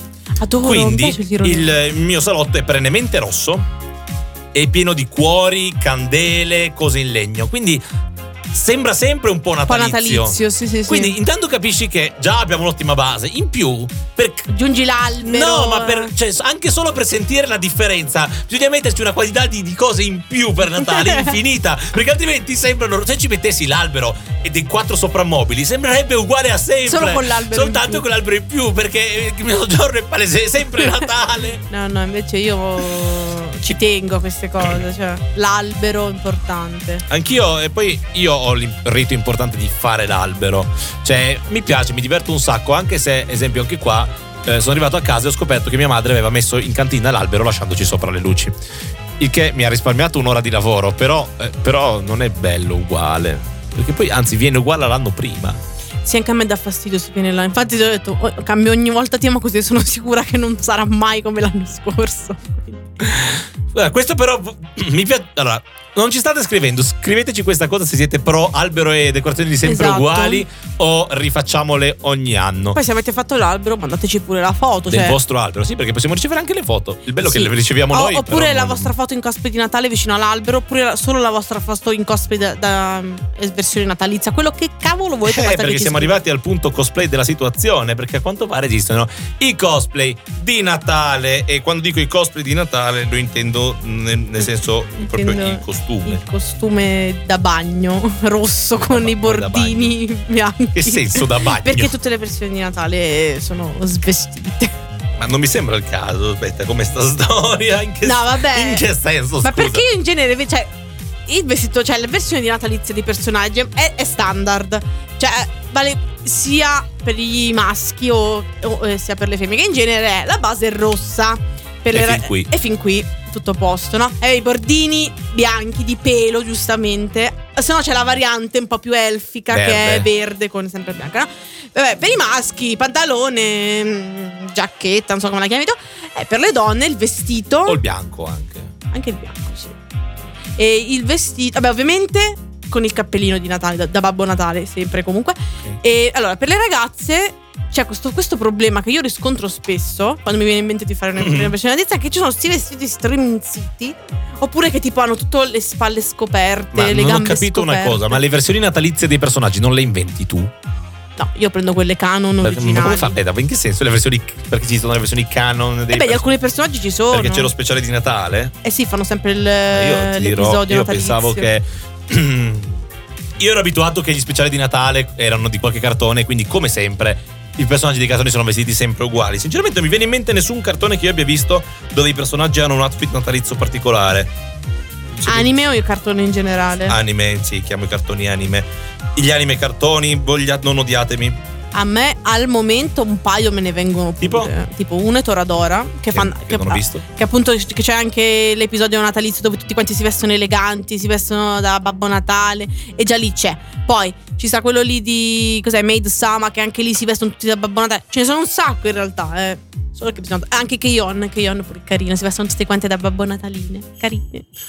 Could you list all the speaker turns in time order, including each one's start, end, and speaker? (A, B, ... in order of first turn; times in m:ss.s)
0:00.4-0:01.7 A
0:00.6-0:03.7 B
0:04.5-0:07.8 B
0:08.5-0:14.5 B
0:09.7-0:11.2 A
0:14.5-0:16.1 A
0:15.2-0:31.6 B
0:21.0-0:21.3 A
0:26.9-0:28.0 A
0:30.8-0:31.1 A
0:31.7-0:37.0 A
0:37.1-0:48.6 B
0:49.2-0:55.6 B
0:56.0-1:02.9 A
1:03.0-1:12.8 B
1:09.6-1:10.4 A
1:12.7-1:15.2 A
1:14.9-1:18.9 B
1:17.2-1:26.2 A
1:25.2-1:36.2 B
1:35.0-1:44.7 A
1:38.8-1:39.9 B
1:40.8-1:41.9 B
1:45.2-1:49.8 B
1:48.0-1:48.8 A
1:49.4-1:50.7 A
1:51.3-2:17.8 A
2:01.9-2:02.5 B
2:09.5-2:10.1 B
2:17.7-2:18.7 B
2:18.9-2:19.8 A
2:20.6-2:38.2 A
2:31.2-2:31.5 B
2:36.7-2:40.5 B
2:41.2-2:43.2 A
2:42.4-2:46.2 B
2:45.9-2:47.5 A
2:47.1-2:48.5 B
2:48.6-2:51.5 A
2:49.7-2:52.8 B
2:53.4-3:04.3 B
3:05.2-3:05.5 B
3:05.3-3:07.0 A
3:06.9-3:11.4 B
3:11.7-3:34.4 A
3:14.2-3:14.5 B
3:16.1-3:17.0 B